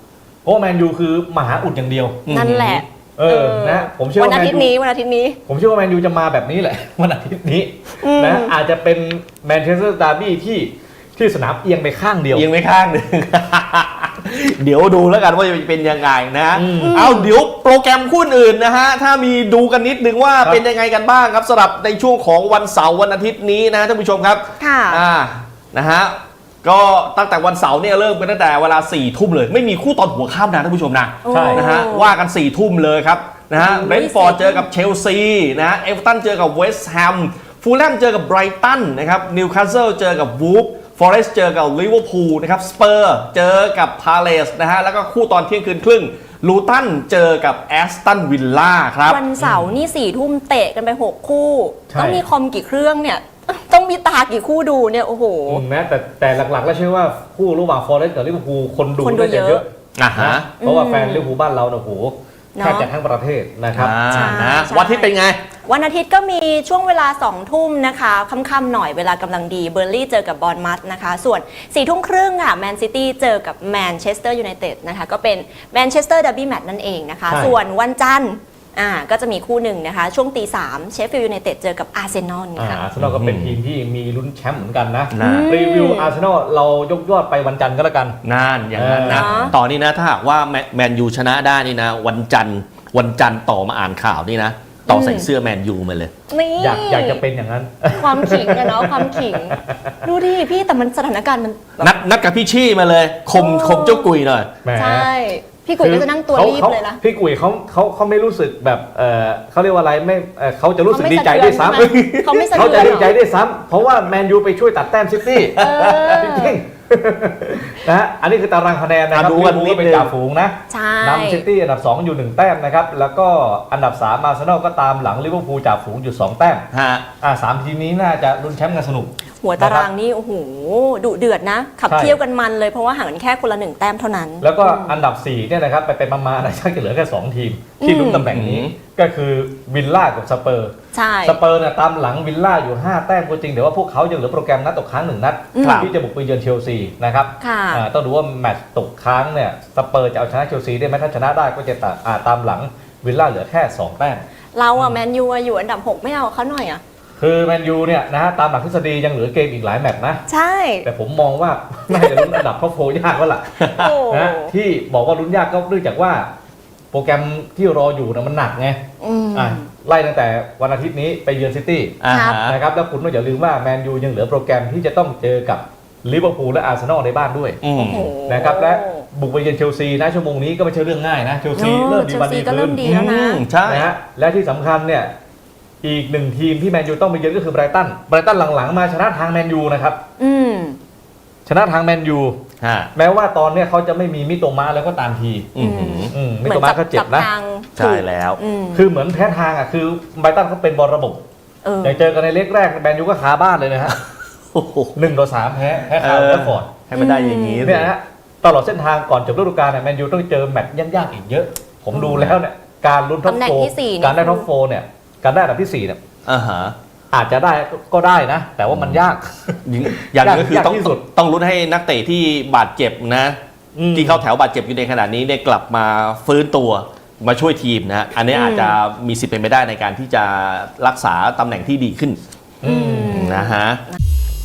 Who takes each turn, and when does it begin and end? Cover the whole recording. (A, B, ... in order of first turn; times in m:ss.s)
0:00.4-0:02.2 A
0:02.2-0:02.8 B
0:02.3-0:05.4 C
0:03.2-0:04.7 A
0:05.5-0:12.5 A
0:08.0-0:08.5 C
0:12.3-0:49.2 B
0:16.5-0:17.1 A
0:16.8-0:17.4 C
0:24.6-0:25.0 C
0:31.2-0:32.1 C
0:31.3-0:31.6 A
0:33.6-0:34.7 C
0:49.0-0:55.6 C
0:49.4-0:49.8 A
0:51.9-0:52.2 A
0:55.5-1:04.0 A
0:59.0-0:59.6 C
1:00.0-1:00.5 B
1:00.6-1:01.3 C
1:02.6-1:02.9 C
1:03.7-1:05.4 B
1:04.1-1:05.1 C
1:05.6-1:22.8 C
1:17.3-1:17.5 A
1:22.6-1:28.2 A
1:23.0-1:23.6 B
1:25.1-1:25.5 B
1:25.2-1:26.1 C
1:28.2-1:36.1 B
1:28.7-1:29.5 A
1:29.0-1:29.6 C
1:34.9-1:35.3 C
1:36.3-1:37.2 C
1:36.6-1:40.0 A
1:37.9-1:41.9 C
1:41.8-1:44.5 B
1:43.3-1:44.1 C
1:44.6-1:45.1 A
1:44.7-1:47.0 C
1:45.8-1:51.9 A
1:50.9-1:53.1 C
1:51.8-1:53.2 B
1:52.5-2:06.6 A
1:55.6-1:56.6 C
1:55.6-1:56.2 B
1:59.1-2:00.1 B
2:00.7-2:01.4 C
2:06.7-2:07.0 B
2:07.2-2:09.9 A
2:09.4-2:15.0 C
2:11.9-2:12.2 A
2:14.4-2:34.2 A
2:17.8-2:18.3 C
2:18.3-2:18.7 B
2:20.9-2:21.4 C
2:25.5-2:25.9 C
2:25.6-2:25.9 B
2:27.4-2:27.8 C
2:34.5-2:36.8 C
2:37.2-2:40.2 A
2:40.3-2:40.9 C
2:40.8-2:46.3 A
2:41.9-2:42.4 C
2:43.7-2:44.5 C
2:46.9-2:48.8 A
2:49.0-2:49.6 C
2:49.3-2:57.6 A
2:52.0-2:52.6 B
2:52.1-2:52.5 C
2:57.6-2:58.1 B
2:57.8-2:59.0 C
2:58.3-3:02.8 A
3:01.5-3:03.4 C
3:02.8-3:03.9 B
3:03.7-3:05.1 A
3:05.8-3:10.0 A
3:10.2-3:10.8 C
3:11.4-3:12.4 A
3:12.6-3:12.9 B
3:12.9-3:15.5 A
3:15.5-3:16.1 B
3:15.6-3:18.9 C
3:16.1-3:17.3 A
3:17.8-3:18.4 B
3:18.7-3:21.2 A
3:21.6-3:22.0 C
3:21.8-3:24.0 A
3:24.5-3:25.0 B
3:24.9-3:26.7 A
3:25.9-3:27.9 B
3:26.9-3:27.7 C
3:27.6-3:36.0 A
3:31.9-3:32.4 B
3:33.2-3:34.4 C
3:36.2-3:36.7 B
3:37.1-3:41.0 A
3:39.6-3:43.4 B
3:43.8-3:44.2 A
3:43.9-3:52.2 B
3:48.3-3:48.8 C
3:52.6-3:53.2 A
3:52.6-3:53.5 C
3:53.0-3:53.8 B